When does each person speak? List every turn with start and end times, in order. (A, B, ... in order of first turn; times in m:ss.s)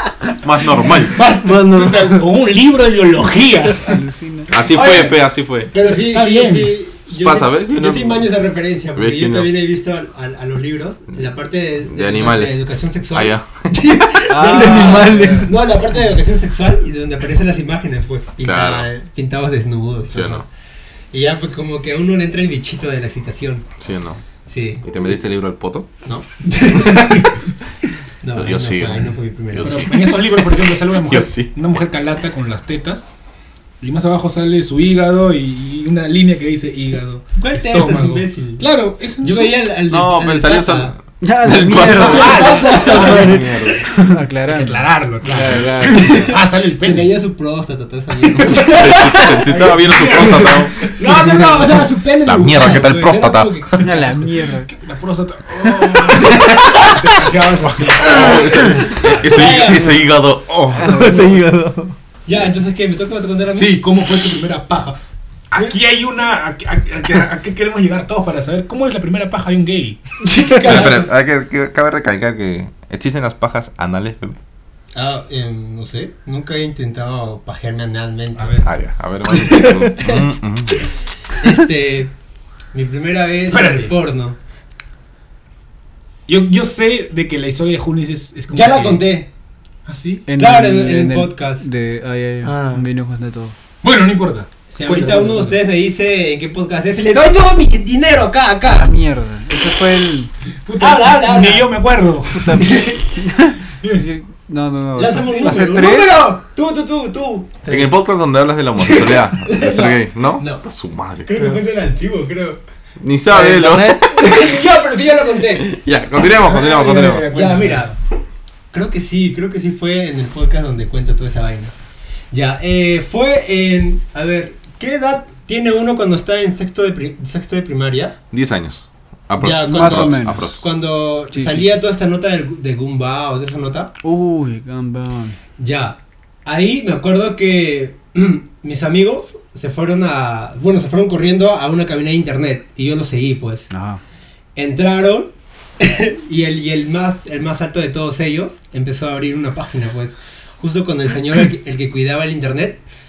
0:00.4-0:01.2 A
0:01.1-0:04.0 B
0:01.4-0:01.9 C
0:03.8-0:04.5 D
0:04.5-0:05.7 A
0:04.7-0:20.5 C
0:05.8-0:06.8 B
0:07.1-0:08.3 A
0:09.0-0:09.5 A
0:11.8-0:13.7 A
0:14.3-0:15.5 D
0:14.4-0:15.5 E
0:18.4-0:18.9 A
0:20.1-0:20.5 A
0:21.1-0:23.7 C
0:23.8-0:24.2 A
0:24.5-0:24.8 C
0:24.8-0:25.9 A
0:26.0-0:27.4 C
0:28.2-0:30.0 C
0:28.3-0:31.8 A
0:29.6-0:33.1 B
0:33.8-0:39.6 B
0:37.4-0:38.7 C
0:39.2-0:40.9 C
0:39.9-0:43.9 A
0:41.2-0:43.4 E
0:41.4-0:42.2 D
0:41.9-0:43.3 B
0:42.1-0:43.3 C
0:44.0-0:46.3 D
0:44.5-0:47.1 B
0:45.9-0:53.9 C
0:48.4-0:51.5 B
0:48.7-0:50.8 A
0:52.2-0:53.8 A
0:53.7-0:59.2 B
0:53.8-0:54.7 D
0:58.0-1:01.4 A
0:59.3-1:00.0 C
1:00.8-1:01.9 E
1:02.3-1:03.8 C
1:03.6-1:05.0 B
1:05.5-1:10.0 B
1:10.2-1:11.1 C
1:10.6-1:14.4 A
1:15.0-1:18.6 C
1:18.4-1:18.7 B
1:18.6-1:20.9 A
1:19.4-1:20.2 C
1:21.4-1:22.1 C
1:22.7-1:24.4 C
1:23.5-1:23.9 B
1:26.3-1:29.0 B
1:28.5-1:29.3 C
1:29.9-1:30.3 B
1:30.3-1:33.6 D
1:30.4-1:31.7 C
1:32.4-1:32.9 E
1:33.8-1:35.6 B
1:34.7-1:38.9 C
1:38.7-1:40.3 D
1:40.7-1:42.6 B
1:40.8-1:41.8 C
1:42.3-1:46.3 D
1:42.6-1:43.0 C
1:45.0-1:48.0 C
1:47.7-1:51.5 A
1:48.9-1:50.6 C
1:51.3-1:52.6 C
1:53.0-1:54.6 A
1:53.3-1:54.3 E
1:53.4-1:55.8 C
1:55.5-1:57.3 A
1:56.5-1:57.9 B
1:56.6-1:57.9 C
1:58.7-2:01.7 C
2:02.3-2:08.2 C
2:08.3-2:10.6 A
2:09.4-2:13.9 C
2:09.7-2:10.5 D
2:11.3-2:11.8 D
2:14.0-2:15.4 D
2:15.6-2:23.7 C
2:23.7-2:24.0 D
2:24.6-2:32.8 C